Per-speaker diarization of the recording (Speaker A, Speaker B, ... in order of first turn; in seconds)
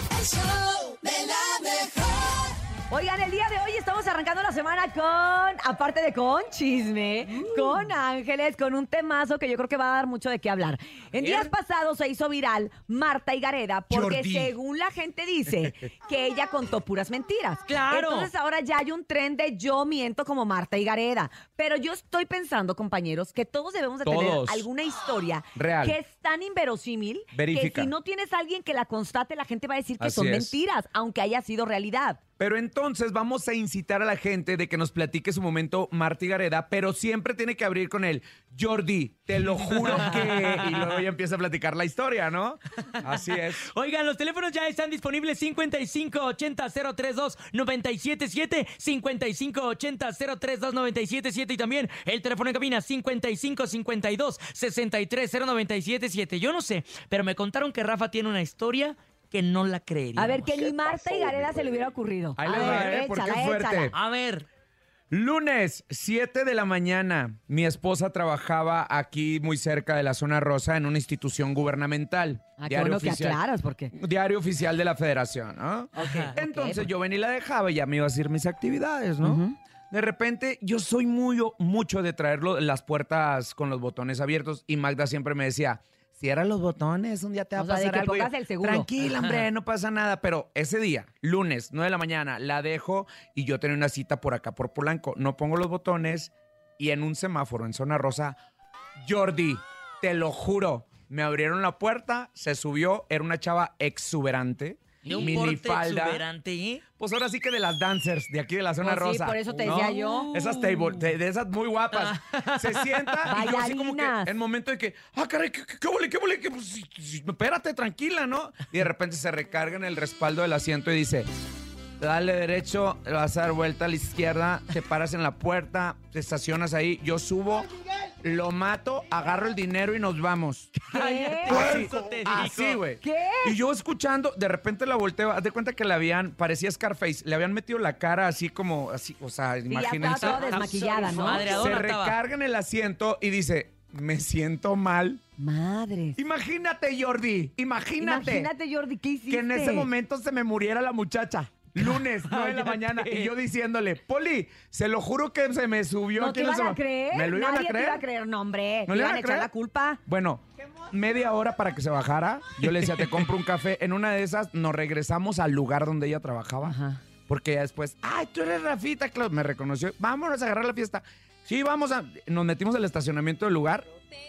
Speaker A: 2.9-32.2, 60.1-63.9, 72.6-73.9, 76.0-76.9, 79.2-79.5, 87.5-88.9, 105.1-105.4, 108.8-110.3, 113.3-114.3, 130.9-131.8, 133.0-133.6, 139.7-141.8, 145.4-146.2, 148.0-149.9, 156.1-160.0, 166.6-167.0
Speaker B: 7.3-7.7, 11.2-11.5, 17.6-18.3, 39.5-41.0, 43.0-60.6, 62.5-63.0, 63.9-64.5, 76.0-76.3, 89.0-89.5, 105.0-106.8, 109.5-111.1, 111.9-113.4, 130.8-132.8, 140.1-142.2, 151.8-153.3, 162.6-163.3
Speaker C: 13.9-14.5, 24.0-24.7, 25.5-26.0, 27.3-27.9, 30.0-30.5, 32.4-43.7, 60.8-61.1, 62.4-64.0, 65.1-98.4, 99.0-106.2, 107.0-121.3, 122.0-127.7, 128.2-130.7, 131.5-145.2, 146.2-148.5, 149.3-158.0, 158.9-159.5, 160.1-166.8, 167.3-173.8